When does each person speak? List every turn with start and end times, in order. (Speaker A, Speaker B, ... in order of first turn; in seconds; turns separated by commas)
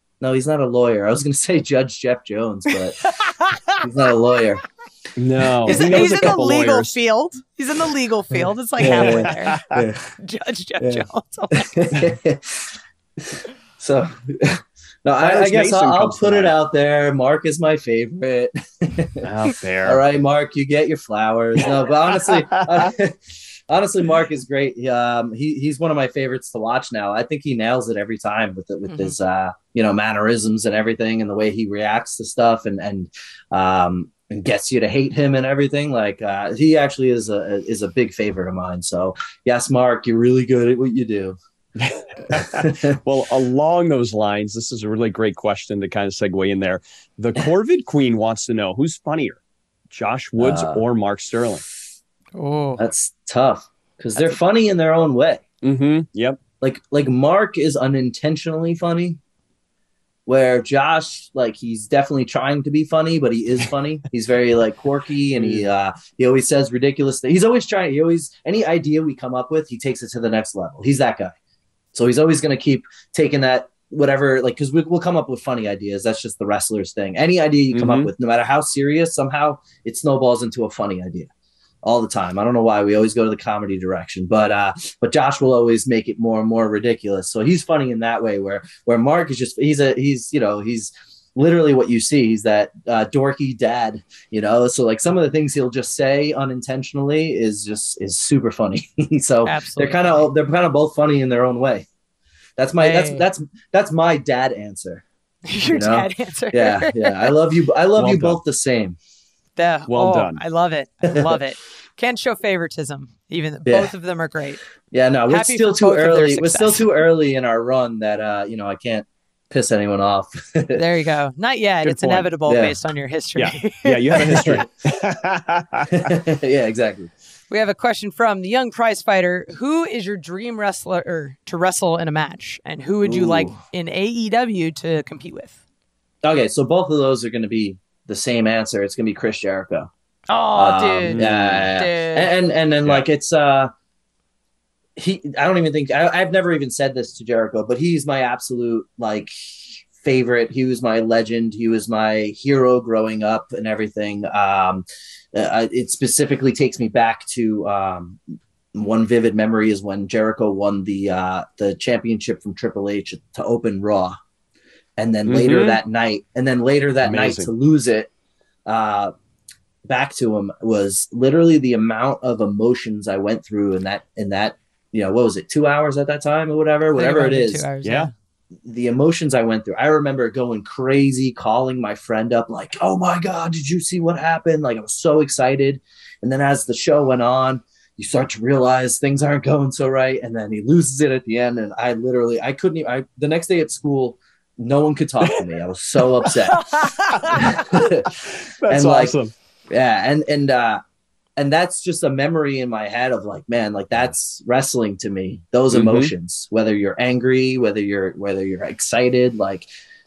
Speaker A: 0.2-3.0, Speaker B: 3.0-3.9, Speaker A: 3.8-4.6, Speaker C: 5.2-7.0, Speaker A: 5.7-6.3, Speaker B: 5.7-9.6, Speaker A: 8.8-10.1, Speaker C: 8.9-9.8, Speaker B: 10.2-11.7, Speaker A: 10.8-19.3, Speaker C: 15.2-16.6, Speaker C: 19.2-20.0, Speaker A: 19.8-41.4, Speaker B: 28.9-29.2, Speaker C: 41.8-49.4, Speaker A: 42.3-43.0, Speaker C: 49.9-51.6, Speaker A: 50.4-50.8, Speaker B: 52.4-52.8, Speaker A: 52.8-55.4, Speaker C: 55.6-56.4, Speaker A: 56.6-59.2, Speaker A: 60.3-71.3, Speaker C: 65.4-65.7, Speaker A: 71.9-81.3, Speaker C: 77.7-78.1, Speaker A: 81.8-101.9, Speaker B: 99.5-100.2, Speaker A: 102.6-105.0, Speaker B: 102.8-103.3, Speaker B: 105.5-107.3, Speaker A: 105.7-109.0, Speaker C: 108.0-108.4, Speaker B: 109.6-114.6, Speaker C: 109.9-110.4, Speaker A: 111.1-111.4, Speaker A: 113.7-113.9, Speaker A: 114.9-120.8, Speaker B: 115.3-117.0, Speaker B: 120.7-124.7, Speaker C: 121.8-122.3, Speaker A: 122.5-122.8, Speaker C: 123.4-126.1, Speaker A: 124.2-124.6, Speaker A: 125.9-127.1, Speaker B: 127.5-135.6, Speaker A: 133.0-133.6, Speaker A: 136.2-139.9, Speaker B: 140.3-142.3, Speaker A: 140.6-143.7, Speaker C: 141.1-141.7, Speaker A: 145.0-158.2, Speaker A: 158.7-164.2, Speaker A: 165.0-168.1, Speaker C: 165.3-165.8, Speaker C: 167.0-167.5, Speaker A: 168.7-169.1, Speaker A: 169.9-177.7, Speaker B: 176.9-178.1, Speaker C: 177.8-178.1, Speaker A: 178.6-199.2, Speaker C: 196.2-199.3, Speaker B: 196.6-197.4, Speaker A: 199.7-200.8, Speaker A: 201.4-209.7, Speaker C: 205.7-206.1